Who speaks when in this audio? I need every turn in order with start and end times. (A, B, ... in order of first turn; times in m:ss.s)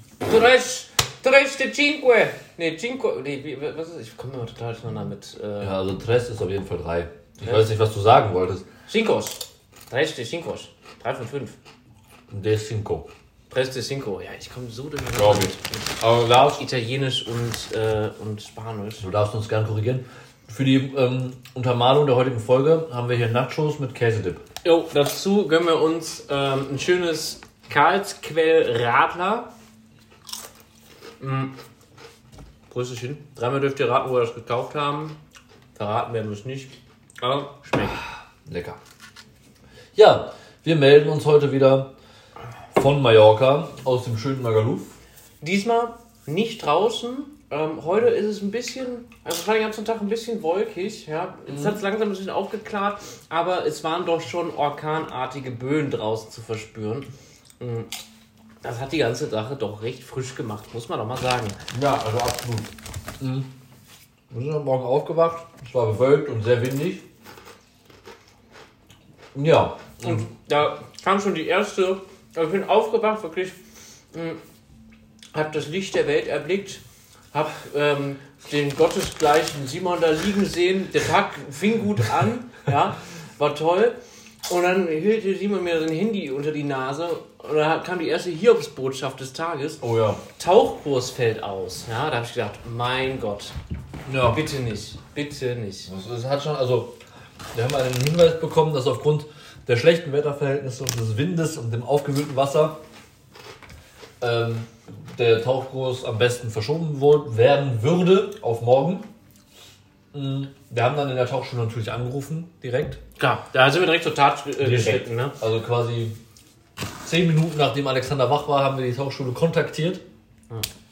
0:00.2-0:05.8 A
0:05.6-0:08.7 B
0:08.9-0:11.6 A
0:12.3-0:13.1 B
0:13.5-0:15.8 A
0:15.2-0:16.6 B
0:16.4-0:19.1 A
0:19.0-0:24.4 B
0:24.6-0:29.5 A
0:31.2-0:31.5 A
0:32.7-0:35.2 A
0:35.8-0:38.0 A
0:38.5-0:38.8 B
0:40.0-0:41.9 B
0:42.7-0:45.0 B
0:45.4-0:57.1 A
0:51.5-0:51.8 B
0:57.6-0:57.9 A
0:58.6-1:01.6 A
1:01.7-1:03.5 B
1:04.3-1:07.0 B
1:09.3-1:10.3 B
1:10.0-1:13.6 A
1:14.1-1:14.4 A
1:15.3-1:16.8 A
1:17.3-1:24.0 A
1:24.5-1:29.8 A
1:29.8-1:30.2 B
1:30.4-1:33.6 A
1:34.1-1:34.4 B
1:34.3-1:35.9 A
1:35.9-1:37.0 B
1:37.5-1:42.8 B
1:44.2-1:49.1 B
1:50.1-1:53.0 B
1:53.2-1:55.4 A
1:54.6-1:56.2 B
1:57.0-2:00.0 B